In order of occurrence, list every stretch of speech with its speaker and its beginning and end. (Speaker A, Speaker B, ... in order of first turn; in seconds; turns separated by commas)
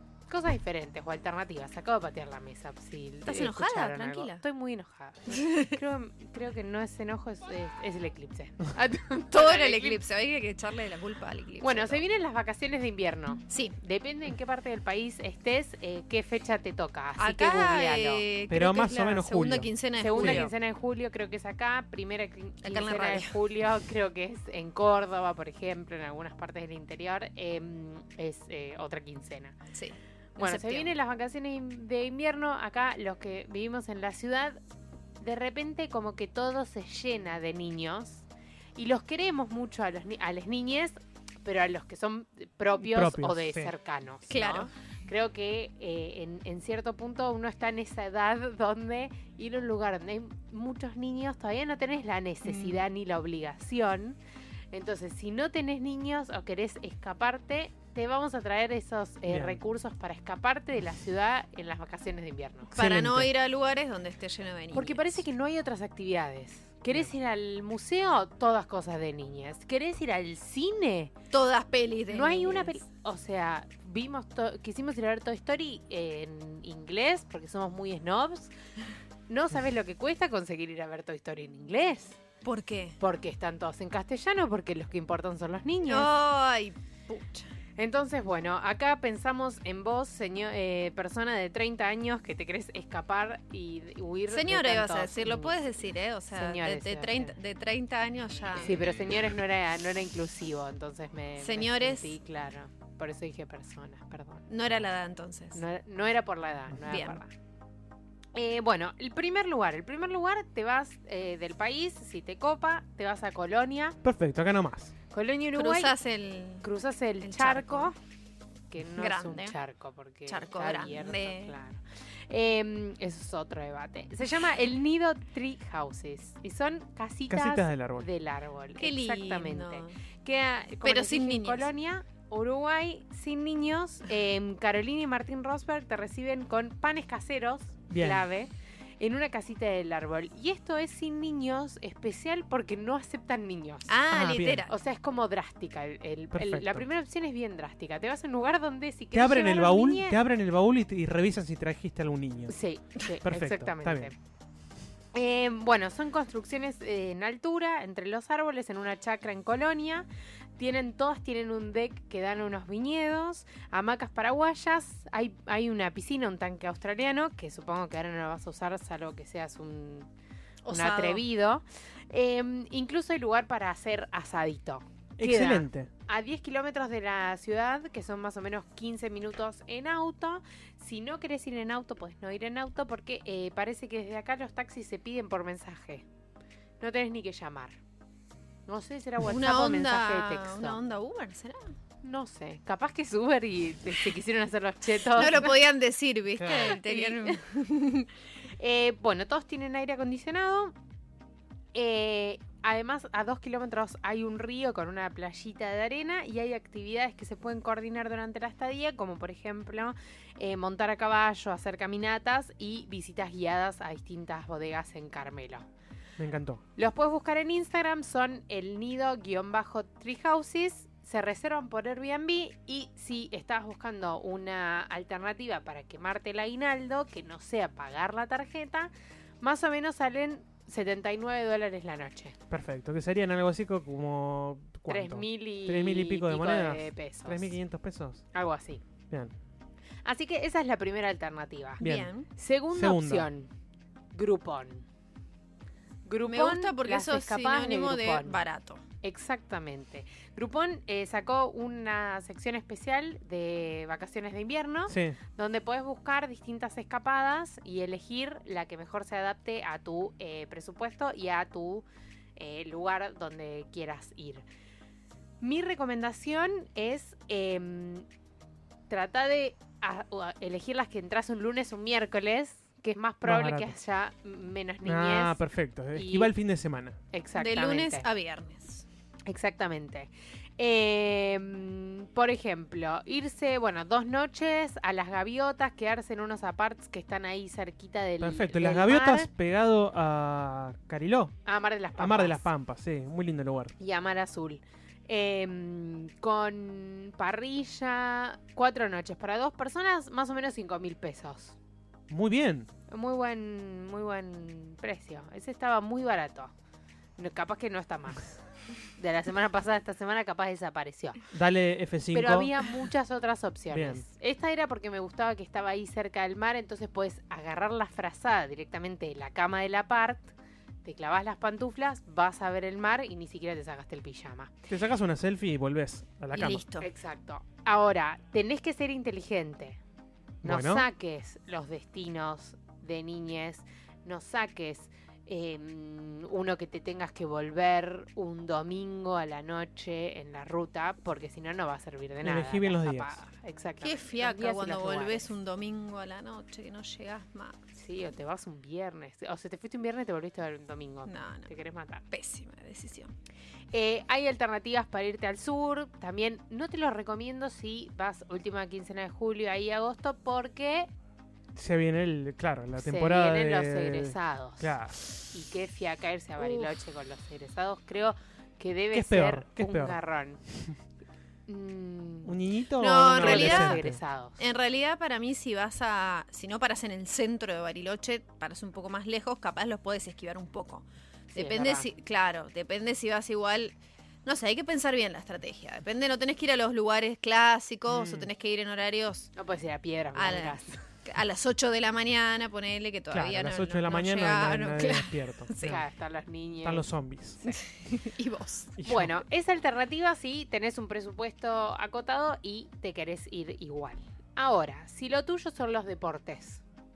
Speaker A: 0.3-10.0, Speaker B: 3.2-4.4, Speaker B: 5.3-5.7, Speaker B: 9.3-12.0, Speaker A: 11.6-18.2, Speaker B: 13.5-13.8, Speaker B: 17.2-20.5, Speaker C: 18.5-20.5, Speaker A: 20.0-29.6, Speaker B: 22.6-23.4, Speaker B: 29.7-30.9, Speaker A: 30.4-34.6, Speaker A: 35.2-54.2, Speaker C: 42.8-43.7, Speaker B: 44.3-44.7, Speaker B: 52.5-52.8, Speaker A: 54.7-62.7, Speaker C: 59.3-59.6, Speaker C: 62.7-63.3, Speaker B: 62.7-65.2, Speaker A: 64.7-71.1, Speaker B: 71.3-72.8, Speaker A: 72.1-78.5, Speaker A: 79.3-82.2, Speaker B: 82.4-83.0, Speaker A: 83.0-86.1, Speaker B: 85.9-87.5, Speaker A: 87.8-95.6, Speaker B: 94.3-98.9, Speaker A: 96.3-97.3, Speaker A: 98.5-104.5, Speaker B: 101.4-102.1, Speaker B: 104.5-105.6, Speaker A: 105.5-107.3, Speaker B: 106.9-107.2, Speaker A: 108.3-114.0, Speaker C: 114.0-114.9, Speaker A: 115.1-115.9, Speaker B: 115.5-116.7, Speaker A: 116.6-118.0, Speaker B: 117.2-117.9, Speaker A: 118.7-143.9, Speaker B: 119.0-119.5, Speaker B: 120.3-121.5, Speaker C: 127.3-128.1, Speaker B: 128.8-129.9, Speaker B: 130.8-131.7, Speaker C: 137.9-138.2, Speaker B: 143.9-144.7, Speaker C: 144.1-144.7, Speaker A: 144.7-150.2, Speaker C: 146.3-146.8, Speaker C: 149.1-152.5, Speaker A: 152.5-154.1, Speaker C: 153.2-154.1, Speaker A: 155.1-160.1, Speaker A: 160.6-170.1, Speaker B: 170.6-171.2, Speaker A: 170.7-186.0, Speaker C: 175.2-175.9, Speaker A: 186.8-187.8, Speaker A: 188.7-190.8, Speaker B: 189.2-191.7, Speaker A: 192.0-195.5, Speaker B: 195.1-198.1, Speaker C: 196.4-196.7, Speaker A: 196.5-197.4, Speaker A: 198.6-200.7, Speaker A: 201.7-215.7, Speaker C: 216.2-216.6, Speaker A: 216.8-232.4, Speaker C: 232.5-238.2, Speaker A: 234.9-237.6, Speaker A: 238.3-238.8, Speaker A: 240.0-241.8, Speaker C: 241.8-242.1, Speaker B: 241.8-242.3, Speaker A: 242.3-243.5, Speaker C: 242.7-243.3, Speaker A: 244.1-244.8, Speaker A: 246.0-248.4, Speaker B: 246.3-248.8, Speaker A: 249.0-264.4, Speaker C: 254.9-255.2, Speaker A: 265.4-268.1, Speaker A: 268.9-275.4, Speaker C: 273.2-273.8, Speaker C: 274.8-277.0, Speaker A: 275.9-276.3, Speaker A: 277.1-278.1, Speaker B: 277.4-278.8, Speaker A: 279.3-289.3, Speaker C: 288.2-291.3, Speaker A: 291.4-292.5, Speaker C: 292.0-293.7, Speaker A: 293.8-301.6, Speaker C: 302.1-302.7, Speaker A: 302.9-306.5, Speaker A: 307.2-308.4, Speaker A: 308.9-311.2, Speaker C: 311.3-312.5, Speaker A: 312.1-324.5, Speaker C: 313.7-314.0, Speaker C: 324.7-326.6, Speaker B: 326.3-326.9, Speaker A: 326.8-329.8, Speaker C: 330.4-330.9, Speaker A: 330.4-345.3, Speaker C: 342.2-343.2, Speaker B: 343.8-347.6, Speaker A: 347.7-352.0, Speaker B: 351.1-351.5, Speaker B: 352.1-353.1, Speaker A: 353.7-360.9, Speaker C: 361.5-365.0, Speaker A: 362.8-364.8, Speaker A: 365.3-370.4, Speaker B: 366.4-366.7, Speaker C: 368.9-370.0, Speaker A: 371.5-372.3, Speaker C: 372.2-374.0, Speaker B: 372.8-373.8, Speaker A: 373.1-374.4, Speaker B: 374.4-383.7, Speaker A: 381.3-381.9, Speaker B: 384.2-389.3, Speaker C: 387.9-388.3, Speaker A: 389.4-390.8, Speaker B: 390.1-395.8, Speaker C: 393.1-395.8, Speaker A: 395.6-396.9, Speaker C: 396.6-397.5, Speaker B: 397.4-398.8, Speaker C: 398.8-399.2, Speaker A: 398.8-406.6